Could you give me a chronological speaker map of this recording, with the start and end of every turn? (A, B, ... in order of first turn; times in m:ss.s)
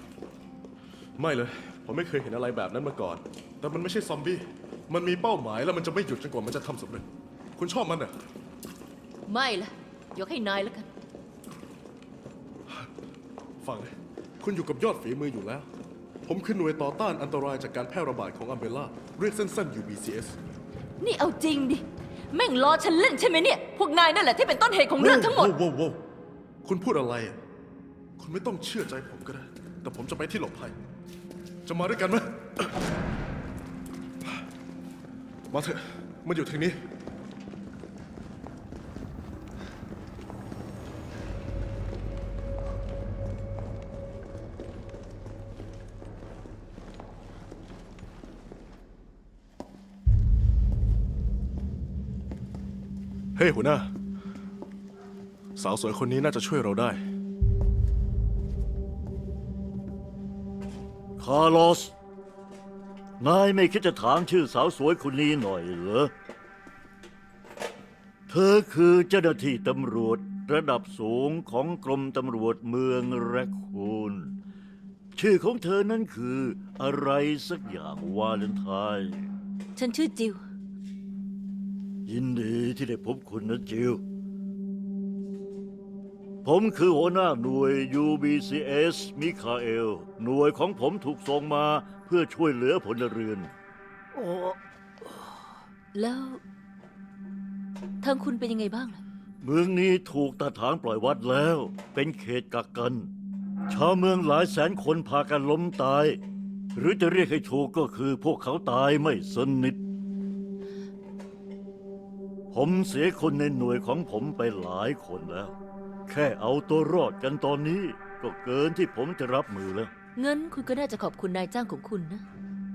0:01.2-0:08.1 A
0:09.3-0:10.9 B
0:13.6-0:15.7 A
0:16.2-0:20.4 A
0:21.0-0:25.6 B
0:25.0-0:26.0 A
0:26.6-0:27.4 A
0:28.2-0:30.7 A
0:31.6-0:32.7 A
0:35.5-0:36.8 A
0:53.4-0:53.9 A
0:55.6-0:57.0 A
1:01.2-1:01.9 C
1:03.2-1:06.1 C
1:08.3-1:14.4 C
1:15.1-1:19.3 C
1:19.8-1:20.4 B
1:22.1-1:24.0 C
1:26.4-1:33.5 C
1:35.9-1:36.4 B
1:38.0-1:39.0 B
1:39.4-1:43.1 C
1:43.7-1:46.2 C
1:46.8-1:49.8 C
1:52.5-1:55.5 C
1:56.1-1:59.9 C
2:00.2-2:02.2 B